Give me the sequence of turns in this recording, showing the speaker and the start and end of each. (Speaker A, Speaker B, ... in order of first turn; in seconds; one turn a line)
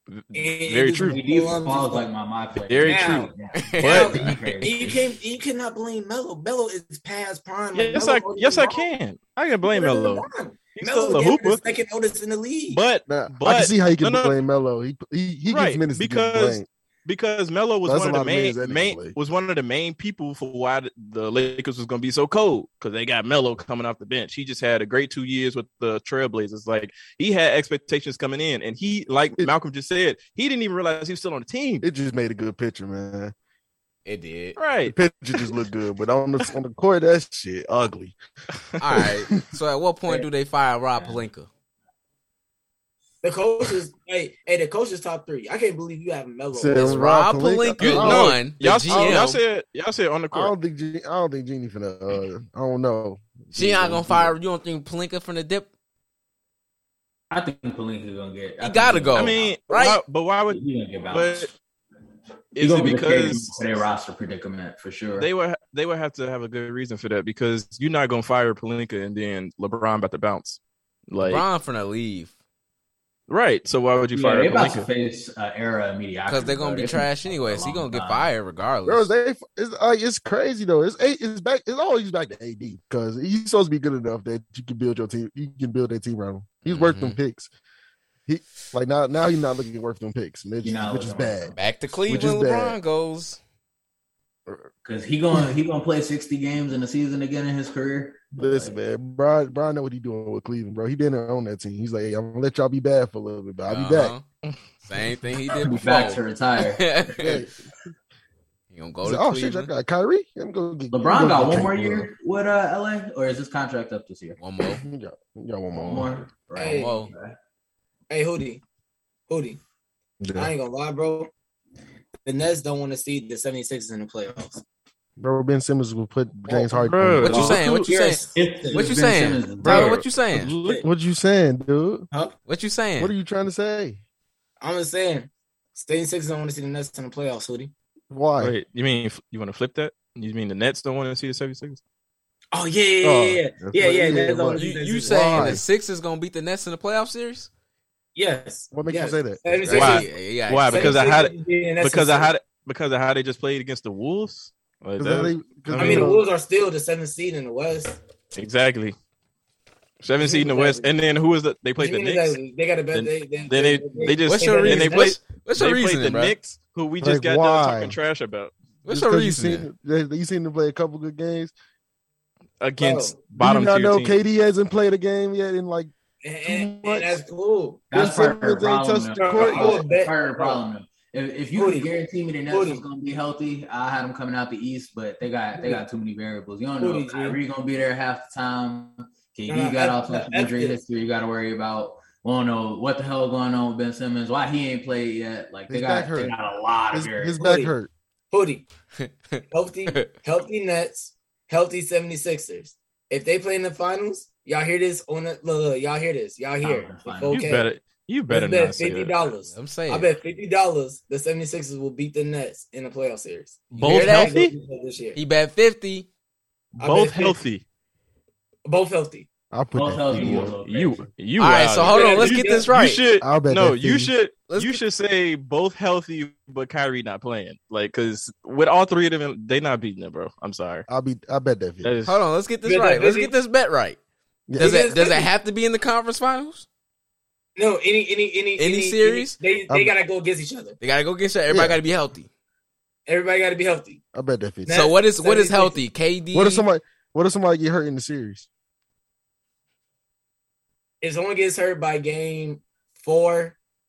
Speaker A: 0.1-1.2
Speaker B: 0.3-2.1
Speaker C: 1.1-5.1
Speaker A: 2.7-4.1
Speaker B: 2.8-8.9
Speaker D: 3.5-4.7
Speaker A: 7.7-11.6
Speaker B: 9.7-12.8
Speaker A: 12.7-14.4
Speaker E: 13.1-16.7
Speaker A: 15.5-31.8
Speaker E: 17.9-19.2
Speaker E: 31.8-33.3
Speaker D: 34.0-34.6
Speaker A: 34.6-35.0
Speaker E: 34.9-38.2
Speaker D: 38.8-41.5
Speaker E: 39.0-39.4
Speaker B: 43.2-47.0
Speaker E: 46.5-49.3
Speaker D: 46.8-49.4
Speaker A: 47.8-50.5
Speaker E: 50.3-54.3
Speaker D: 53.5-55.7
Speaker C: 57.3-59.5
Speaker D: 58.6-60.0
Speaker A: 59.1-61.5
Speaker C: 60.5-61.5
Speaker A: 62.5-63.6
Speaker C: 62.6-65.3
Speaker A: 65.2-71.4
Speaker D: 71.2-72.3
Speaker A: 73.3-74.9
Speaker C: 74.1-78.3
Speaker D: 76.3-79.1
Speaker E: 78.8-87.5
Speaker D: 86.6-87.2
Speaker E: 88.3-91.5
Speaker C: 90.6-91.6
Speaker D: 91.6-93.4
Speaker E: 92.1-92.8
Speaker C: 94.8-98.8
Speaker E: 98.4-104.1
Speaker D: 103.7-104.2
Speaker D: 104.8-107.4
Speaker C: 105.5-107.0
Speaker E: 107.2-107.6
Speaker D: 108.7-109.7
Speaker E: 109.0-112.1
Speaker C: 110.9-114.4
Speaker D: 114.4-114.8
Speaker E: 114.6-116.3
Speaker C: 115.7-117.4
Speaker B: 116.6-117.0
Speaker D: 116.6-117.1
Speaker B: 118.1-118.6
Speaker B: 119.3-119.6
Speaker E: 120.2-120.5
Speaker B: 120.4-121.3
Speaker B: 122.2-124.6
Speaker E: 125.2-127.5
Speaker B: 126.5-126.8
Speaker A: 126.8-127.9
Speaker D: 127.2-130.5
Speaker C: 127.3-130.0
Speaker B: 127.9-128.9
Speaker A: 129.6-130.8
Speaker E: 130.8-132.1
Speaker D: 132.5-133.1
Speaker E: 133.0-134.0
Speaker B: 134.6-137.7
Speaker E: 138.1-138.6
Speaker A: 138.4-141.8
Speaker B: 142.5-145.6
Speaker A: 143.0-143.4
Speaker E: 143.6-145.6
Speaker D: 144.5-147.5
Speaker B: 148.2-150.1
Speaker E: 148.7-149.5
Speaker D: 149.6-151.0
Speaker A: 149.7-156.1
Speaker B: 150.7-152.3
Speaker E: 155.0-156.3
Speaker B: 155.8-158.0
Speaker A: 158.3-159.0
Speaker A: 160.0-162.4
Speaker B: 160.2-160.9
Speaker B: 161.8-165.1
Speaker A: 162.9-168.5
Speaker D: 164.1-166.3
Speaker E: 167.0-168.0
Speaker D: 168.8-169.7
Speaker E: 168.9-171.5
Speaker A: 172.6-174.2
Speaker B: 172.8-173.2
Speaker E: 173.4-175.9
Speaker B: 176.2-177.9
Speaker E: 176.4-177.2
Speaker C: 177.9-197.4
Speaker E: 177.9-179.9
Speaker B: 179.2-180.6
Speaker B: 181.5-181.9
Speaker B: 182.5-182.8
Speaker B: 186.8-187.4
Speaker B: 189.5-190.8
Speaker E: 195.7-196.4
Speaker E: 196.9-197.9
Speaker B: 197.4-197.7
Speaker B: 198.3-198.7
Speaker D: 199.0-200.1
Speaker B: 199.5-207.7
Speaker C: 206.6-207.5
Speaker A: 207.3-209.1
Speaker B: 208.3-215.2
Speaker D: 209.5-210.1
Speaker D: 213.8-214.3
Speaker A: 213.8-214.5
Speaker D: 215.1-216.1
Speaker B: 216.8-217.4
Speaker A: 216.8-217.6
Speaker B: 218.7-219.3
Speaker E: 219.5-220.6
Speaker C: 219.8-221.1
Speaker A: 220.1-230.9
Speaker D: 221.4-223.0
Speaker B: 221.8-222.7
Speaker E: 223.2-224.1
Speaker D: 224.5-224.8
Speaker E: 230.9-232.0
Speaker A: 231.8-232.2
Speaker D: 232.1-234.0
Speaker B: 232.7-233.3
Speaker E: 234.5-234.9
Speaker B: 234.6-235.3
Speaker D: 234.6-236.7
Speaker B: 237.6-240.8
Speaker D: 238.6-239.4
Speaker D: 240.8-242.3
Speaker E: 241.5-241.8
Speaker B: 243.1-244.0
Speaker E: 244.1-244.9
Speaker B: 244.7-245.8
Speaker D: 244.7-246.7
Speaker E: 246.3-248.5
Speaker B: 251.0-253.6